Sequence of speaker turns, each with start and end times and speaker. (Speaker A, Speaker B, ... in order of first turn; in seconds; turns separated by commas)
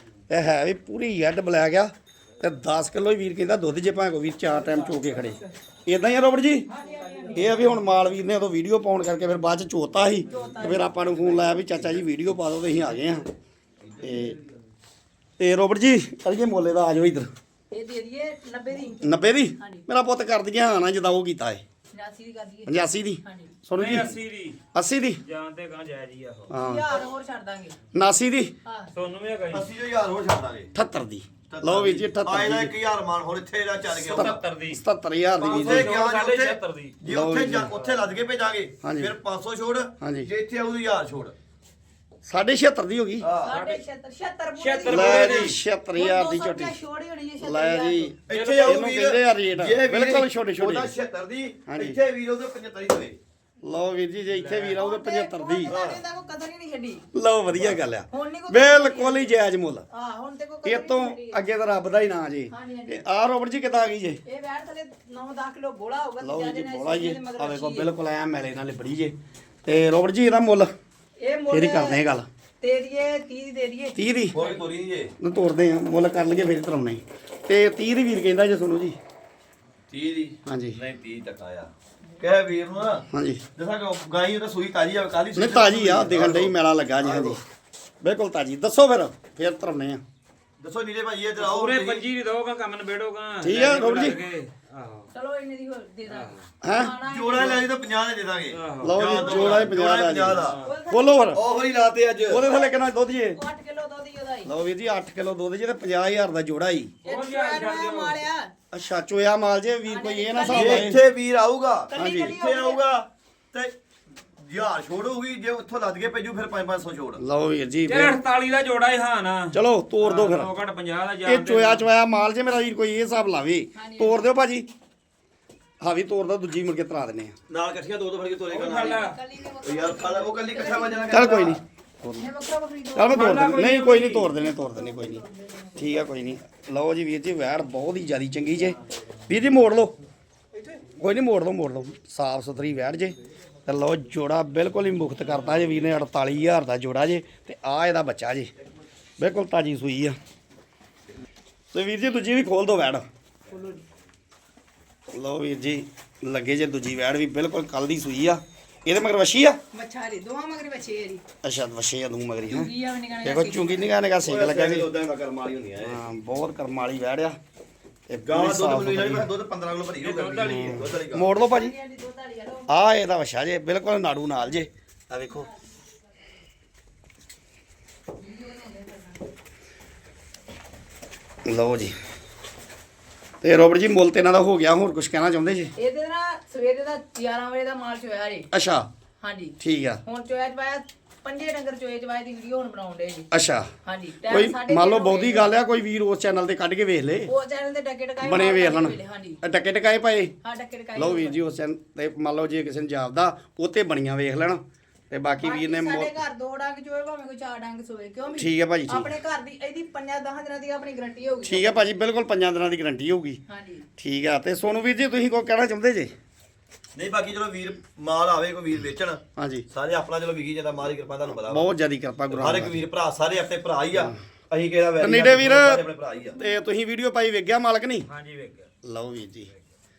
Speaker A: 0.3-6.7, Speaker B: 6.7-7.6, Speaker A: 7.3-13.3, Speaker B: 10.3-10.9, Speaker A: 14.0-14.4, Speaker A: 15.4-17.3, Speaker B: 17.7-19.8, Speaker A: 19.0-21.6, Speaker B: 21.9-23.5, Speaker A: 22.7-24.2, Speaker C: 23.8-24.6, Speaker A: 24.7-25.2, Speaker C: 25.2-26.5, Speaker A: 26.5-26.9, Speaker B: 26.5-27.8, Speaker A: 27.9-28.5, Speaker B: 28.6-28.9, Speaker C: 28.9-29.7, Speaker D: 29.5-30.7, Speaker A: 30.7-32.7, Speaker D: 31.5-34.3, Speaker C: 33.9-34.8, Speaker A: 34.1-35.9, Speaker D: 35.4-41.3, Speaker C: 35.4-37.0, Speaker A: 37.0-37.7, Speaker C: 37.6-38.1, Speaker A: 38.8-39.1, Speaker A: 40.0-40.3, Speaker A: 42.2-43.3, Speaker D: 43.2-43.5, Speaker B: 43.4-48.1, Speaker C: 43.4-43.8, Speaker C: 44.6-45.6, Speaker A: 44.9-46.8, Speaker A: 47.4-50.9, Speaker D: 48.3-53.2, Speaker C: 48.3-48.8, Speaker A: 51.7-52.0, Speaker A: 53.6-55.8, Speaker C: 54.3-54.8, Speaker B: 54.8-57.0, Speaker D: 55.7-56.0, Speaker A: 57.1-59.8, Speaker D: 57.5-57.8, Speaker B: 58.1-59.3, Speaker B: 59.9-61.4, Speaker A: 60.6-64.2, Speaker B: 62.5-63.0, Speaker B: 64.2-67.9, Speaker A: 66.2-70.7, Speaker B: 71.2-72.0, Speaker A: 71.5-72.3, Speaker B: 72.6-74.6, Speaker A: 73.9-74.4, Speaker D: 74.3-75.1, Speaker A: 75.2-79.0, Speaker D: 79.9-87.4, Speaker A: 80.5-80.8, Speaker A: 83.1-83.4, Speaker A: 85.3-87.4, Speaker A: 88.0-90.0, Speaker D: 90.6-92.0, Speaker C: 91.4-95.1, Speaker A: 93.4-94.2, Speaker B: 95.1-97.7, Speaker C: 96.1-96.4, Speaker A: 96.6-97.0, Speaker D: 97.0-100.6, Speaker C: 98.5-99.6, Speaker A: 98.8-101.4, Speaker B: 99.1-99.7, Speaker C: 100.4-100.7, Speaker B: 100.6-101.4, Speaker D: 101.3-102.4, Speaker A: 102.3-103.4, Speaker B: 102.5-102.8, Speaker B: 103.3-104.5, Speaker A: 104.5-106.9, Speaker C: 107.0-108.2, Speaker B: 107.0-108.5, Speaker A: 108.7-111.0, Speaker B: 109.8-110.9, Speaker D: 110.5-113.7, Speaker B: 111.9-112.8, Speaker A: 111.9-112.4, Speaker D: 114.4-117.2, Speaker A: 117.2-118.2, Speaker C: 117.8-121.8, Speaker A: 119.5-120.5, Speaker A: 121.2-124.7, Speaker B: 123.7-124.3, Speaker A: 125.8-127.3, Speaker D: 127.5-129.0, Speaker C: 128.5-129.2, Speaker B: 128.7-131.5, Speaker D: 129.6-131.6, Speaker A: 131.1-132.3, Speaker B: 132.2-133.5, Speaker A: 132.9-135.2, Speaker C: 133.1-134.3, Speaker B: 134.4-135.6, Speaker A: 135.8-138.8, Speaker A: 139.3-139.9, Speaker A: 141.0-143.1, Speaker A: 143.7-148.5, Speaker A: 149.2-150.2, Speaker A: 151.7-153.1, Speaker B: 153.5-153.8, Speaker A: 155.1-159.6, Speaker B: 159.7-161.2, Speaker A: 161.4-162.7, Speaker B: 162.5-163.9, Speaker A: 163.2-164.9, Speaker D: 164.2-166.0, Speaker A: 165.8-167.4, Speaker A: 168.1-169.3, Speaker D: 168.2-171.3, Speaker C: 170.0-170.9, Speaker A: 170.4-171.7, Speaker B: 171.3-172.7, Speaker A: 172.7-175.5, Speaker B: 178.2-179.3, Speaker A: 181.4-181.9, Speaker A: 183.4-185.7, Speaker B: 185.8-188.5, Speaker A: 188.5-188.9, Speaker B: 189.2-193.3, Speaker A: 189.6-190.0, Speaker A: 193.3-193.7, Speaker B: 193.8-195.5, Speaker A: 194.2-197.3, Speaker B: 197.3-199.4, Speaker A: 198.2-200.3, Speaker B: 200.4-201.4, Speaker A: 200.9-206.2, Speaker B: 205.4-211.8, Speaker A: 208.3-209.1, Speaker A: 211.4-213.4, Speaker B: 213.5-213.9, Speaker A: 214.0-216.1, Speaker D: 216.9-221.7, Speaker A: 219.3-219.7, Speaker A: 221.4-222.8, Speaker D: 222.3-226.4, Speaker A: 225.0-225.8, Speaker A: 226.3-228.1, Speaker C: 228.1-228.7, Speaker A: 228.8-229.5